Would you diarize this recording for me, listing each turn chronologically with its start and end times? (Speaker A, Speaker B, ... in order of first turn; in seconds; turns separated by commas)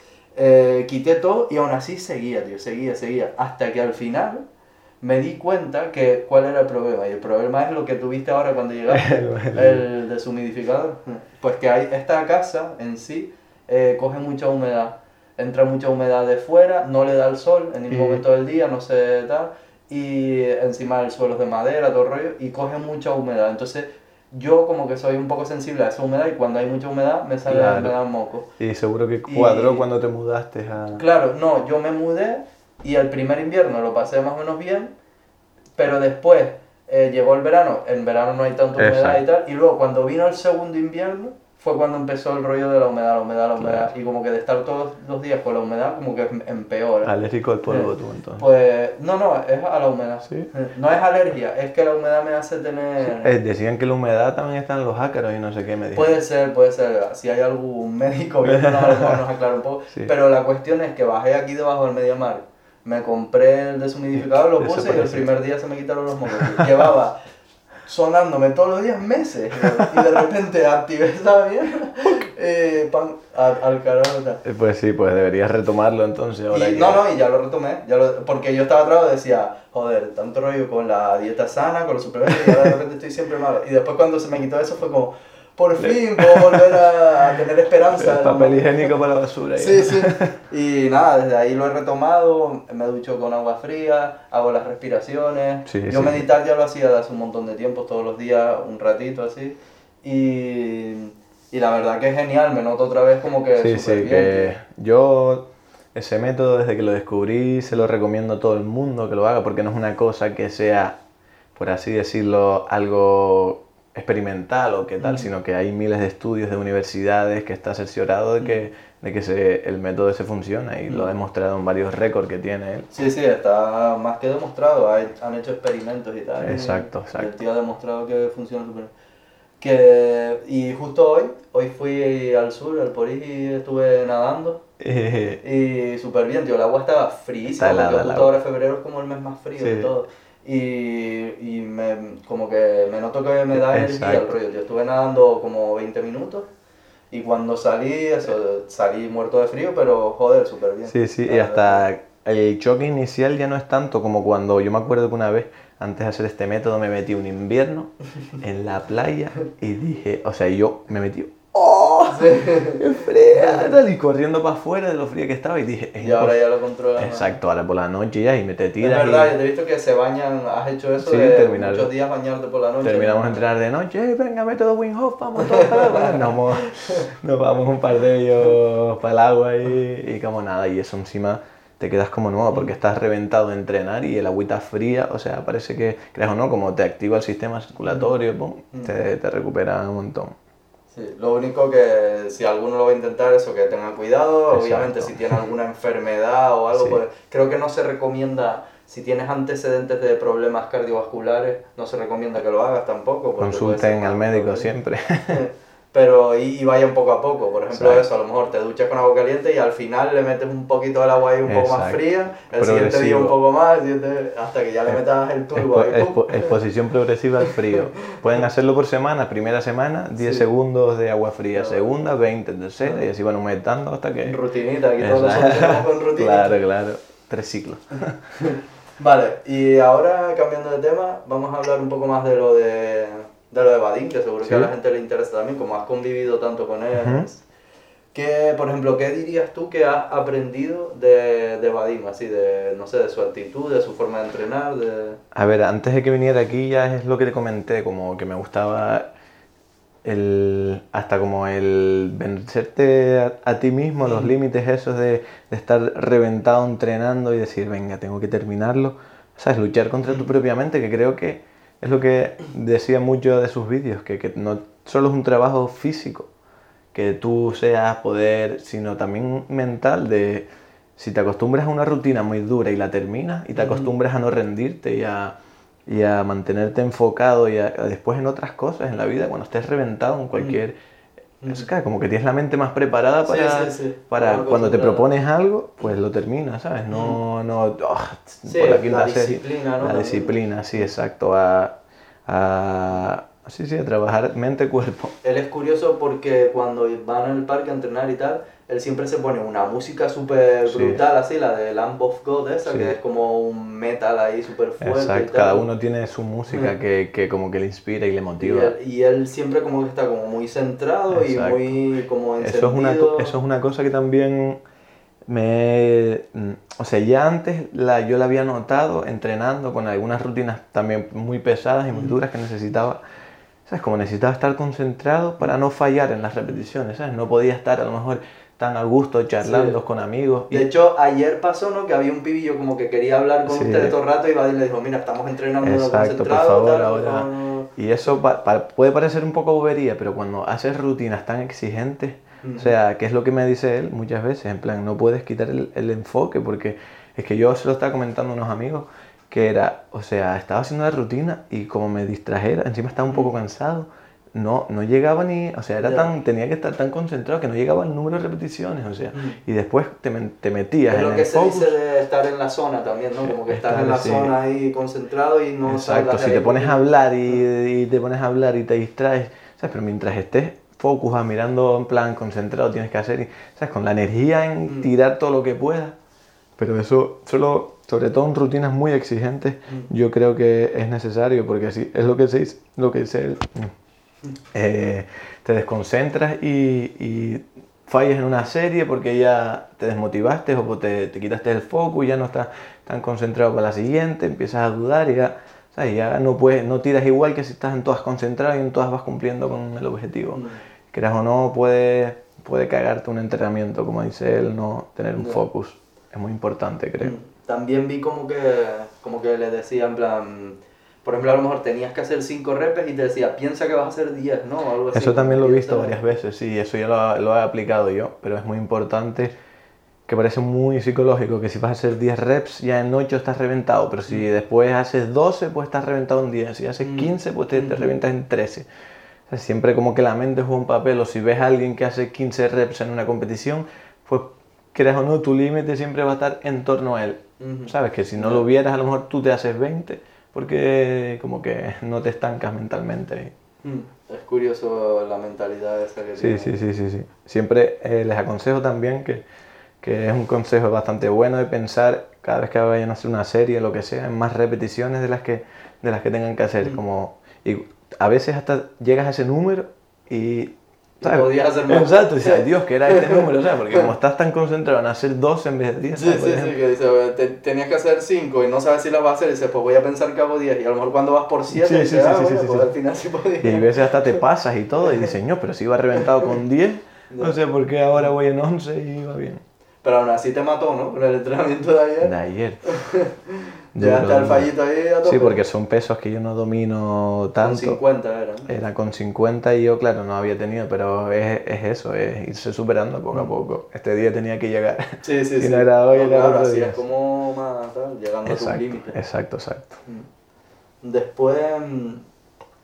Speaker A: 0.3-4.4, Speaker A: 5.0-28.5, Speaker B: 8.9-9.8, Speaker B: 17.9-18.2, Speaker B: 27.4-27.9, Speaker B: 28.6-31.0, Speaker A: 29.3-29.8, Speaker A: 30.9-34.9, Speaker A: 35.8-47.1, Speaker B: 38.8-39.2, Speaker B: 43.6-43.9, Speaker B: 47.0-48.4, Speaker A: 47.7-53.3, Speaker B: 50.2-50.5, Speaker B: 53.0-56.2, Speaker A: 55.9-67.2, Speaker B: 58.4-59.2, Speaker B: 64.2-65.3, Speaker B: 66.6-66.9, Speaker A: 67.8-74.4, Speaker B: 69.8-70.0, Speaker B: 74.4-77.0, Speaker A: 76.5-89.0, Speaker B: 82.3-82.7, Speaker B: 85.8-86.8, Speaker B: 87.9-90.3, Speaker A: 89.6-104.5, Speaker B: 95.7-96.2, Speaker B: 103.6-111.0, Speaker B: 111.5-122.9, Speaker A: 115.0-115.3, Speaker A: 120.9-121.1, Speaker A: 122.9-128.9, Speaker B: 126.4-127.3, Speaker A: 129.6-134.6, Speaker B: 134.8-135.4, Speaker A: 135.4-146.5, Speaker B: 137.6-138.3, Speaker B: 139.6-139.9, Speaker B: 143.5-144.3, Speaker A: 147.1-151.8, Speaker B: 150.9-166.4, Speaker A: 162.1-163.8, Speaker A: 166.0-167.3, Speaker B: 167.0-169.3, Speaker A: 168.8-173.4, Speaker B: 171.0-171.9, Speaker B: 172.8-190.3, Speaker A: 175.4-177.1, Speaker A: 190.9-204.7, Speaker B: 194.5-195.4, Speaker B: 196.7-197.0, Speaker B: 203.4-205.4, Speaker A: 205.3-216.6, Speaker B: 207.7-208.1, Speaker B: 211.4-213.3, Speaker B: 215.5-224.4, Speaker A: 217.4-218.4, Speaker A: 220.2-220.4, Speaker A: 221.5-221.9, Speaker A: 224.2-226.6, Speaker B: 225.0-228.2, Speaker A: 228.4-237.4, Speaker B: 234.4-234.7, Speaker B: 236.9-237.3, Speaker A: 238.1-245.2, Speaker B: 245.3-249.1, Speaker B: 250.0-266.3, Speaker A: 254.0-254.3, Speaker B: 266.9-275.4, Speaker A: 273.6-273.9, Speaker B: 275.9-280.8, Speaker A: 280.3-280.6, Speaker A: 281.4-281.7, Speaker B: 281.5-295.1, Speaker A: 283.2-285.1, Speaker A: 286.9-287.2, Speaker A: 288.4-290.9, Speaker A: 295.2-305.7, Speaker B: 300.7-301.0, Speaker B: 302.6-302.9, Speaker B: 304.8-308.7, Speaker A: 306.5-306.7, Speaker A: 308.4-313.4, Speaker B: 311.1-311.8, Speaker B: 312.4-314.6, Speaker B: 315.3-323.0, Speaker A: 321.9-322.2, Speaker B: 323.6-330.7, Speaker A: 329.4-329.8, Speaker A: 330.5-337.7, Speaker B: 333.5-333.9, Speaker B: 335.6-361.7, Speaker A: 342.4-342.7, Speaker A: 355.8-356.1, Speaker A: 359.1-359.4, Speaker A: 360.9-366.8, Speaker B: 363.2-364.3, Speaker B: 365.7-375.9, Speaker A: 374.6-374.9, Speaker B: 376.6-383.7, Speaker B: 384.5-407.1, Speaker A: 400.3-400.6, Speaker A: 405.2-405.4, Speaker A: 407.0-416.0, Speaker B: 414.9-419.3, Speaker B: 420.1-428.6, Speaker A: 426.8-428.0, Speaker B: 429.3-443.3, Speaker A: 437.4-438.5, Speaker A: 443.6-446.6, Speaker B: 446.2-449.2, Speaker B: 449.8-466.6, Speaker A: 461.0-463.9, Speaker A: 465.9-474.2, Speaker B: 471.5-472.7, Speaker B: 473.4-479.4, Speaker A: 476.0-476.2, Speaker A: 477.1-477.4, Speaker A: 479.8-482.1, Speaker B: 482.0-482.7, Speaker A: 482.6-485.4, Speaker B: 483.8-484.5, Speaker B: 485.0-487.8, Speaker A: 487.4-488.5, Speaker B: 488.5-496.8, Speaker A: 495.0-499.0, Speaker B: 498.2-499.8, Speaker A: 500.8-502.0